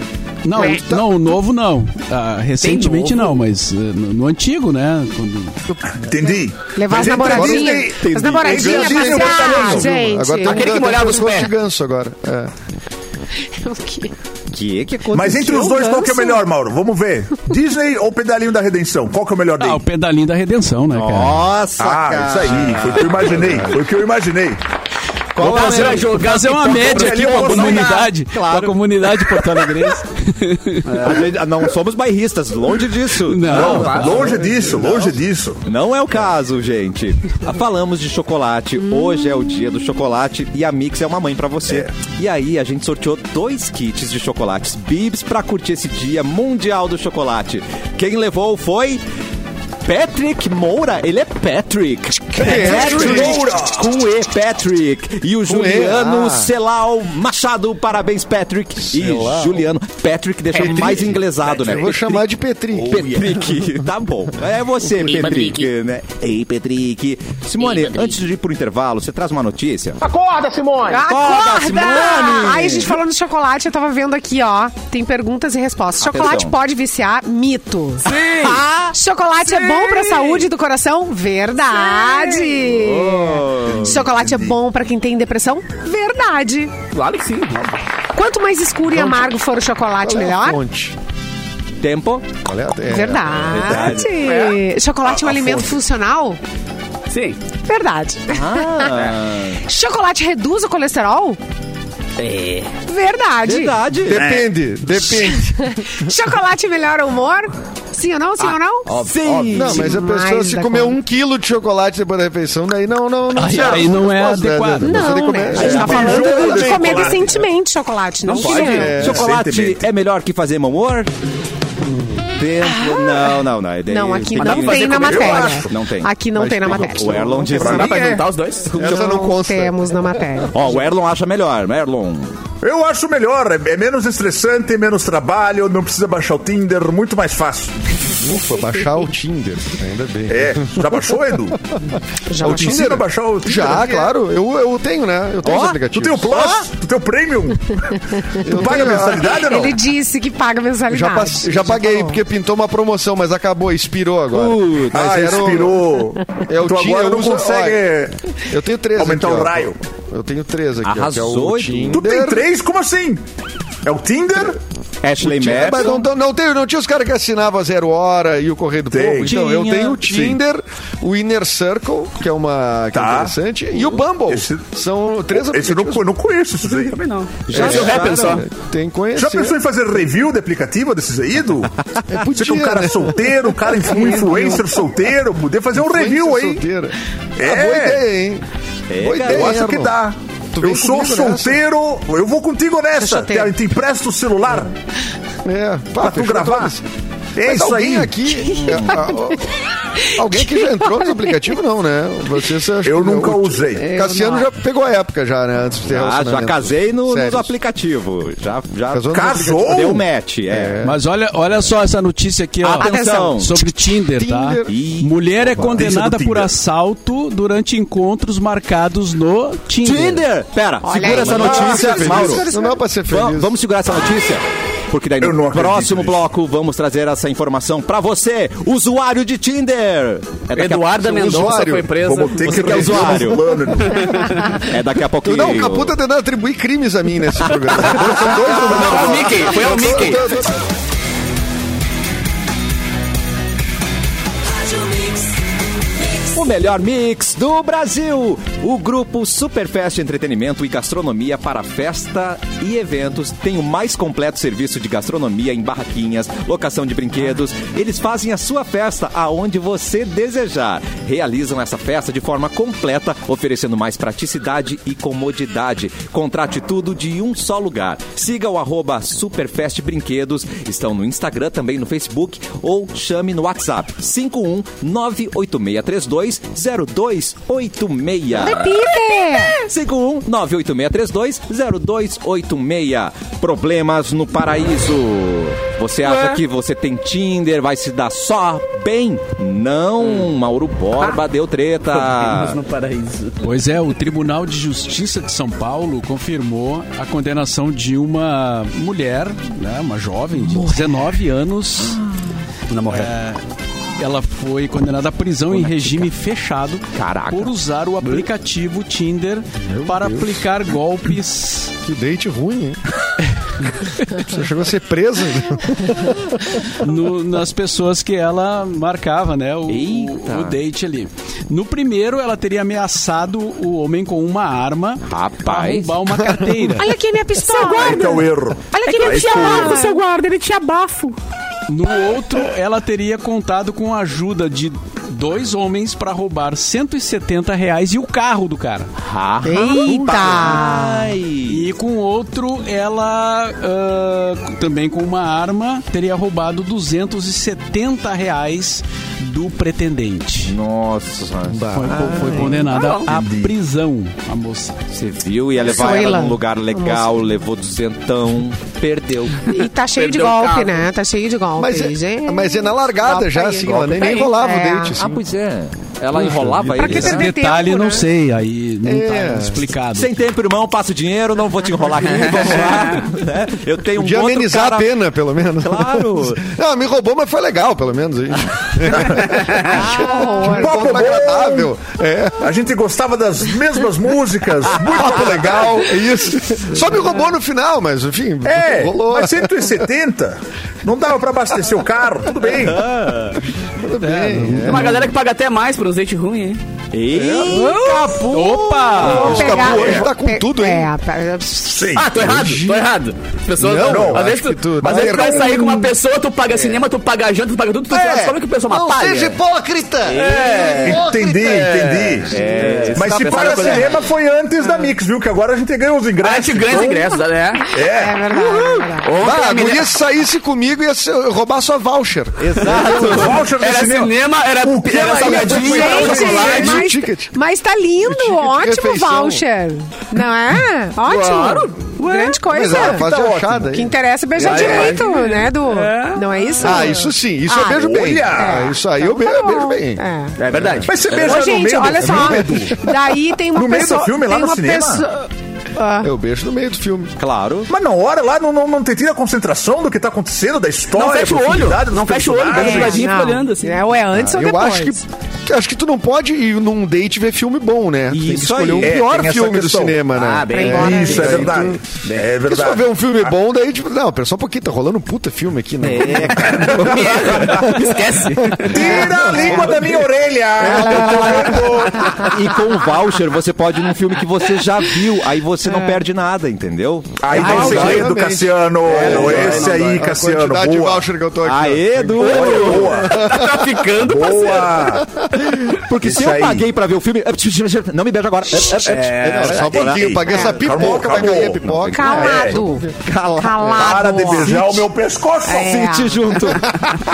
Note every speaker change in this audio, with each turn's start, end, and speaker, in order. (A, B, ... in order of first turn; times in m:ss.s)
0:00.4-0:05.8 A
0:00.5-0:00.8 B
0:00.6-0:01.0 C
0:02.6-0:03.4 D
0:05.9-0:09.9 E
0:06.7-0:10.7 B
0:07.0-0:07.8 C
0:07.9-0:09.7 F
0:08.5-0:12.5 C
0:10.4-0:11.5 D
0:13.6-0:14.1 B
0:14.5-0:15.6 F
0:15.1-0:19.8 E
0:15.6-0:16.5 B
0:19.6-0:21.5 A
0:20.9-0:23.8 F
0:21.8-0:24.6 E
0:25.3-0:29.6 F
0:25.4-0:31.0 A
0:25.4-0:27.9 D
0:25.4-0:25.7 E
0:26.7-0:28.1 E
0:30.9-0:31.3 D
0:30.9-0:35.1 F
0:33.2-0:34.0 A
0:33.5-0:34.7 D
0:33.5-0:35.7 E
0:35.6-0:49.0 F
0:38.9-0:39.6 B
0:41.7-0:42.0 E
0:49.8-1:02.2 F
0:52.3-0:53.5 C
0:52.3-0:54.0 E
0:55.4-0:56.5 C
0:58.9-0:59.7 C
1:00.5-1:03.5 C
1:02.8-1:10.0 F
1:05.1-1:05.6 D
1:10.1-1:10.9 D
1:10.8-1:26.7 B
1:11.0-1:12.9 F
1:16.0-1:16.5 F
1:18.0-1:18.7 D
1:18.3-1:18.9 F
1:19.5-1:20.5 D
1:21.7-1:22.7 D
1:22.7-1:24.5 F
1:26.9-1:27.8 D
1:28.1-1:30.6 B
1:30.0-1:31.0 C
1:31.8-1:32.3 F
1:32.4-1:33.5 C
1:32.8-1:36.4 B
1:33.4-1:34.1 F
1:34.2-1:34.6 D
1:35.1-1:35.7 E
1:37.1-1:37.4 D
1:37.6-1:39.0 B
1:38.3-1:39.6 F
1:39.6-1:41.4 B
1:42.2-1:42.7 D
1:42.9-1:43.8 B
1:43.4-1:44.3 F
1:44.0-1:45.7 C
1:44.1-1:44.5 E
1:45.1-1:49.0 B
1:48.9-1:49.5 D
1:48.9-1:50.0 F
1:49.5-1:56.9 C
1:49.5-1:51.0 B
1:53.3-1:55.2 A
1:54.8-1:59.0 B
1:55.6-1:57.4 E
1:55.6-1:56.2 F
1:58.2-1:59.0 D
1:58.4-2:01.1 F
1:58.5-1:59.3 C
1:59.0-1:59.9 E
2:02.4-2:06.1 F
2:02.6-2:08.2 B
2:04.3-2:05.6 D
2:05.0-2:05.7 E
2:06.3-2:07.6 C
2:06.7-2:08.1 F
2:07.5-2:08.7 D
2:07.6-2:08.0 E
2:08.7-2:09.8 C
2:08.7-2:10.7 B
2:08.8-2:09.1 F
2:10.5-2:12.3 F
2:12.6-2:17.7 E
2:18.2-2:21.0 C
2:20.3-2:21.6 E
2:22.3-2:22.9 B
2:22.4-2:26.6 C
2:22.4-2:24.0 E
2:25.4-2:25.8 F
2:25.9-2:27.8 E
2:28.4-2:29.4 C
2:28.5-2:29.8 E
2:29.3-2:32.2 B
2:30.9-2:35.9 C
2:34.3-2:35.0 F
2:34.9-2:38.1 E
2:36.5-2:42.4 C
2:38.9-2:39.8 E
2:40.8-2:42.0 F
2:41.9-2:43.2 E
2:43.8-2:44.6 E
2:45.0-2:46.0 F
2:45.2-2:56.0 C
2:45.4-2:45.9 E
2:48.9-2:49.4 E
2:49.2-2:50.4 F
2:52.9-2:53.3 E
2:54.3-2:54.6 E
2:55.3-2:57.0 E
2:56.7-2:58.4 D
2:57.5-2:58.4 F
2:57.5-2:59.6 C
2:59.1-3:01.7 E
3:02.1-3:04.7 C
3:02.3-3:06.6 E
3:05.7-3:08.4 C
3:07.4-3:08.0 E
3:08.9-3:09.6 F
3:09.0-3:10.0 C
3:09.2-3:14.7 E
3:10.5-3:11.6 C
3:13.0-3:13.6 B
3:15.4-3:16.8 C
3:16.0-3:16.8 E
3:17.4-3:18.3 E
3:17.4-3:19.5 C
3:18.4-3:19.2 B
3:20.0-3:21.5 B
3:20.1-3:27.5 C
3:22.8-3:23.8 E
3:23.8-3:24.5 B
3:25.9-3:30.8 F
3:28.9-3:29.9 C
3:29.1-3:30.0 E
3:30.5-3:31.0 C
3:30.8-3:40.2 A
3:32.6-3:33.6 F
3:32.8-3:33.4 B
3:34.1-3:34.8 C
3:34.7-3:35.9 F
3:35.7-3:36.5 E
3:39.8-3:42.4 F
3:40.8-3:42.8 B
3:41.0-3:43.5 C
3:43.1-3:51.2 F
3:45.2-3:46.2 E
3:50.5-3:52.9 D
3:51.0-3:51.9 C
3:52.0-3:54.3 E
3:52.4-3:53.5 F
3:54.5-3:55.9 F
3:55.2-4:00.6 C
3:57.8-4:00.3 D
4:06.3-4:38.8 F
4:38.3-4:39.7 B
4:39.6-4:52.6 F
4:46.0-4:46.4 D
4:51.9-4:53.4 D
4:53.4-5:02.0 A
5:02.7-5:03.1 D
5:02.9-5:03.4 A
5:04.0-5:11.7 A
5:05.5-5:06.1 F
5:06.9-5:08.2 F
5:09.7-5:10.4 C
5:11.8-5:12.8 C
5:14.1-5:16.5 C
5:16.8-5:26.9 A
5:19.7-5:20.6 F
5:25.1-5:26.0 F
5:26.7-5:30.0 B
5:27.4-5:28.2 D
5:27.6-5:29.8 E
5:28.8-5:31.1 D
5:31.7-5:38.9 A
5:39.0-5:41.7 F
5:39.4-5:41.1 B
5:41.4-5:50.5 A
5:50.4-5:52.6 F
5:51.6-5:52.5 C
5:51.7-5:54.8 A
5:52.7-5:53.1 D
5:53.0-5:53.5 E
5:54.9-5:59.5 F
5:55.6-5:57.2 B
5:59.5-6:05.0 B
5:59.9-6:00.9 D
6:01.6-6:05.2 C
6:03.8-6:04.3 D
6:04.9-6:07.3 F
6:06.1-6:07.1 C
6:06.7-6:08.1 B
6:06.8-6:10.2 A
6:08.8-6:09.7 C
6:09.9-6:14.9 F
6:14.0-6:22.5 C
6:15.6-6:16.4 F
6:19.6-6:20.9 B
6:20.5-6:21.7 E
6:22.4-6:25.8 E
6:24.7-6:29.8 C
6:28.4-6:32.9 E
6:32.5-6:33.4 F
6:33.8-6:35.0 C
6:34.0-6:35.0 A
6:34.6-6:36.6 D
6:36.9-6:37.8 F
6:37.2-6:37.4 C
6:37.5-6:38.2 B
6:37.5-6:39.5 A
6:39.0-6:40.9 C
6:39.0-6:41.9 B
6:39.6-6:40.0 E
6:41.7-6:42.1 E
6:42.0-6:49.4 D
6:42.1-6:42.9 C
6:43.6-6:45.9 C
6:43.7-6:44.3 E
6:44.8-6:45.6 E
6:47.9-6:51.7 C
6:50.0-6:54.0 D
6:50.8-6:57.1 E
6:52.3-6:53.8 F
6:52.6-6:53.8 C
6:56.2-6:57.7 D
6:57.7-6:58.2 E
6:57.8-6:59.1 B
6:58.3-6:59.9 D
6:59.2-7:03.0 C
7:02.4-7:03.4 F
7:02.6-7:06.8 D
7:02.8-7:06.7 E
7:05.3-7:07.3 C
7:05.3-7:13.1 B
7:08.0-7:09.4 C
7:11.0-7:12.4 D
7:12.5-7:14.7 C
7:12.7-7:13.6 E
7:13.6-7:20.4 B
7:14.4-7:16.9 D
7:14.5-7:15.0 E
7:16.6-7:20.9 C
7:17.8-7:18.6 E
7:20.4-7:21.5 D
7:20.8-7:22.8 E
7:21.1-7:26.1 B
7:22.0-7:22.8 C
7:23.5-7:25.0 E
7:26.0-7:27.1 C
7:27.2-7:27.7 F
7:27.7-7:33.1 E
7:30.9-7:33.8 D
7:32.5-7:35.0 B
7:34.1-7:41.8 C
7:38.1-7:39.0 F
7:38.8-7:40.0 E
7:40.1-7:42.3 D
7:40.5-7:41.3 B
7:40.7-7:42.9 E
7:42.4-7:49.8 C
7:45.8-7:47.0 F
7:46.4-7:47.4 E
7:46.8-7:49.0 D
7:48.7-7:52.3 E
7:49.4-7:50.0 F
7:50.6-7:52.0 C
7:51.0-7:51.5 F
7:52.1-7:58.2 F
7:55.6-7:56.0 B
7:57.2-8:01.0 E
7:57.3-8:03.8 C
7:57.4-7:58.0 D
7:58.8-8:00.0 D
7:59.1-7:59.6 F
8:01.4-8:03.0 F
8:02.2-8:04.9 D
8:02.2-8:03.2 E
8:04.0-8:05.0 E
8:05.0-8:05.5 C
8:05.6-8:12.4 F
8:06.0-8:06.7 E
8:08.8-8:09.7 D
8:08.9-8:12.7 C
8:09.7-8:12.6 E
8:10.2-8:10.5 B
8:11.8-8:14.8 B
8:13.0-8:14.0 F
8:13.7-8:15.7 E
8:15.4-8:16.8 B
8:15.6-8:16.7 F